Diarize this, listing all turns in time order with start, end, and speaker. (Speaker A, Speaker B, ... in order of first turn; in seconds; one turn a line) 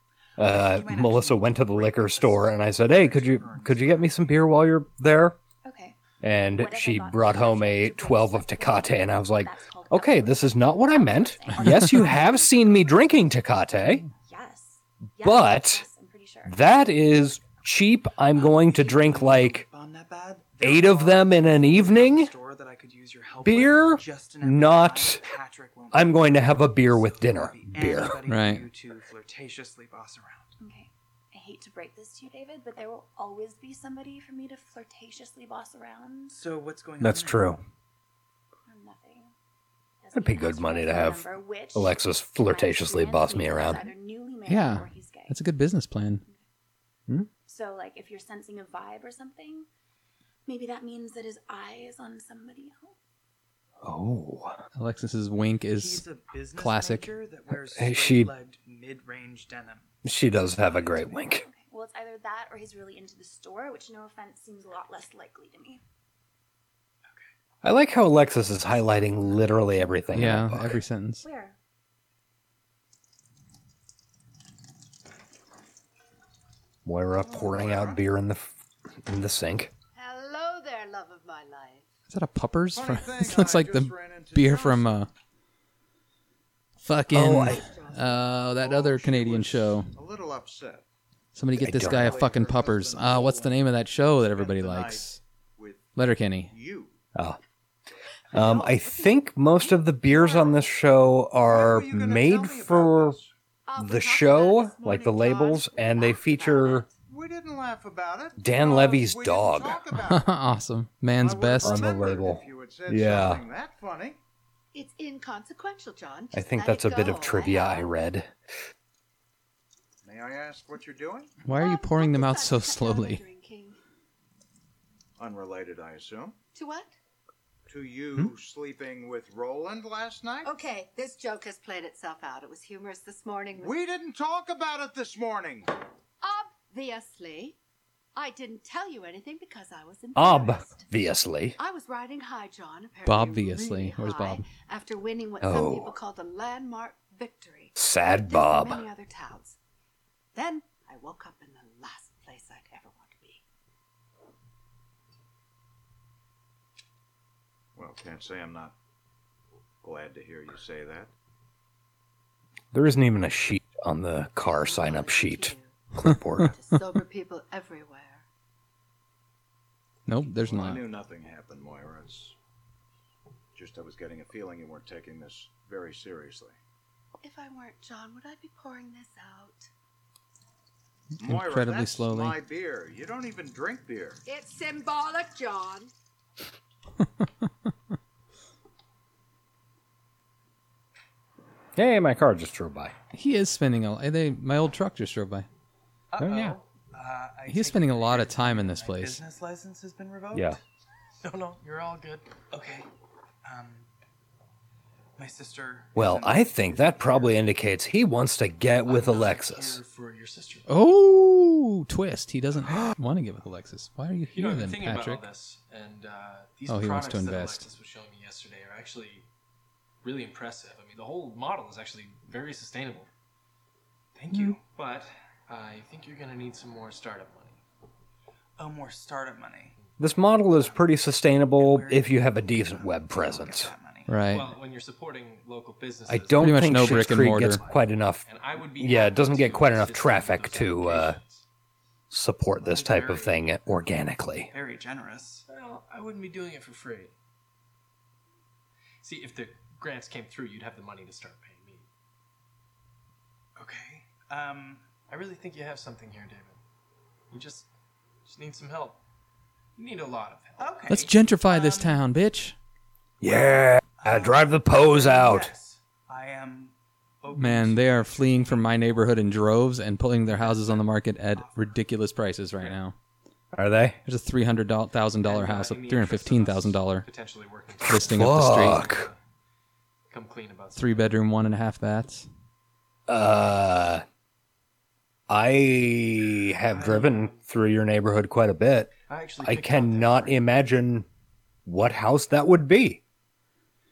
Speaker A: 0.4-5.4
Speaker B: 0.4-4.2
Speaker C: 5.6-6.0
Speaker A: 6.2-14.1
Speaker C: 6.5-12.9
Speaker C: 14.2-16.6
Speaker A: 15.2-15.8
Speaker A: 16.4-19.6
Speaker B: 18.3-30.5
Speaker A: 20.6-22.3
Speaker A: 23.4-25.2
Speaker A: 25.9-28.2
Speaker D: 28.2-28.6
Speaker C: 30.6-36.4
Speaker B: 36.3-37.6
Speaker A: 37.0-37.6
Speaker C: 38.6-39.3
Speaker C: 40.0-45.4
Speaker A: 40.1-43.8
Speaker D: 44.5-46.2
Speaker C: 47.5-49.7
Speaker C: 50.5-52.9
Speaker A: 53.8-54.6
Speaker D: 54.8-56.0
Speaker B: 55.7-59.9
Speaker D: 56.5-57.1
Speaker A: 57.7-58.3
Speaker A: 60.0-61.5
Speaker B: 60.7-61.1
Speaker C: 60.8-65.8
Speaker A: 67.6-70.8
Speaker D: 70.1-71.2
Speaker C: 71.2-71.5
Speaker A: 76.8-79.7
Speaker E: 77.2-78.0
Speaker F: 79.9-81.9
Speaker D: 82.1-85.1
Speaker E: 82.7-85.0
Speaker D: 86.8-89.9
Speaker A: 87.1-87.6
Speaker F: 87.2-88.4
Speaker E: 88.5-90.8
Speaker D: 91.3-95.2
Speaker A: 91.6-92.3
Speaker E: 91.6-95.9
Speaker D: 96.0-96.5
Speaker E: 96.5-97.0
Speaker A: 97.1-97.4
Speaker A: 98.3-103.2
Speaker F: 98.4-99.1
Speaker E: 101.4-103.3
Speaker F: 103.7-106.9
Speaker A: 103.8-106.9
Speaker E: 107.1-110.4
Speaker A: 108.4-109.8
Speaker D: 110.0-111.8
Speaker E: 111.2-114.2
Speaker A: 111.6-113.4
Speaker F: 114.7-117.9
Speaker A: 116.3-118.3
Speaker E: 120.0-121.3
Speaker D: 121.4-123.2
Speaker F: 121.5-123.8
Speaker E: 125.2-126.4
Speaker F: 126.5-126.9
Speaker E: 127.7-130.5
Speaker F: 130.4-133.8
Speaker E: 133.6-135.7
Speaker F: 136.2-137.6
Speaker F: 138.1-140.9
Speaker A: 140.2-141.6
Speaker F: 141.6-149.6
Speaker D: 143.1-144.4
Speaker A: 145.4-145.9
Speaker A: 147.8-148.9
Speaker F: 150.3-153.4
Speaker E: 157.8-158.7
Speaker E: 159.8-161.1
Speaker A: 162.7-166.5
Speaker F: 164.4-168.2
Speaker D: 170.1-170.8
Speaker E: 170.2-172.4
Speaker E: 173.6-176.6
Speaker F: 177.2-179.7
Speaker E: 181.2-184.2
Speaker D: 181.2-182.4
Speaker F: 184.2-185.9
Speaker D: 187.0-187.4
Speaker A: 191.8-192.9
Speaker D: 193.1-195.5
Speaker B: 196.1-200.6
Speaker A: 196.2-196.6
Speaker D: 197.4-199.2
Speaker A: 200.3-200.6
Speaker G: 201.2-202.3
Speaker B: 202.5-202.9
Speaker B: 203.4-203.9
Speaker B: 205.2-207.4
Speaker A: 205.9-209.8
Speaker G: 208.9-210.7
Speaker B: 209.1-209.8
Speaker D: 210.7-215.2
Speaker G: 214.3-219.3
Speaker D: 216.7-217.7
Speaker G: 220.0-223.1
Speaker G: 224.2-227.6
Speaker B: 224.2-224.6
Speaker B: 228.6-229.8
Speaker A: 230.0-233.7
Speaker B: 230.5-234.1
Speaker D: 234.1-234.5
Speaker G: 234.3-241.4
Speaker A: 236.1-241.2
Speaker D: 236.4-237.6
Speaker A: 242.1-244.5
Speaker B: 242.6-243.3
Speaker G: 242.8-243.2
Speaker B: 244.5-245.4
Speaker G: 245.5-247.1
Speaker G: 249.0-251.9
Speaker B: 253.6-254.9
Speaker G: 255.1-256.6
Speaker G: 257.3-257.7
Speaker G: 258.2-259.0
Speaker G: 259.8-261.0
Speaker B: 260.6-262.0
Speaker D: 260.9-262.6
Speaker A: 263.2-265.5
Speaker B: 263.2-268.7
Speaker D: 267.3-272.9
Speaker B: 270.3-271.8
Speaker A: 273.5-274.0
Speaker D: 274.1-277.1
Speaker G: 275.2-279.2
Speaker D: 277.9-278.9
Speaker A: 278.0-279.1
Speaker G: 280.1-281.1
Speaker D: 280.8-282.3
Speaker A: 283.1-284.0
Speaker A: 285.3-291.1
Speaker G: 286.7-287.4
Speaker G: 289.1-290.4
Speaker A: 291.6-293.0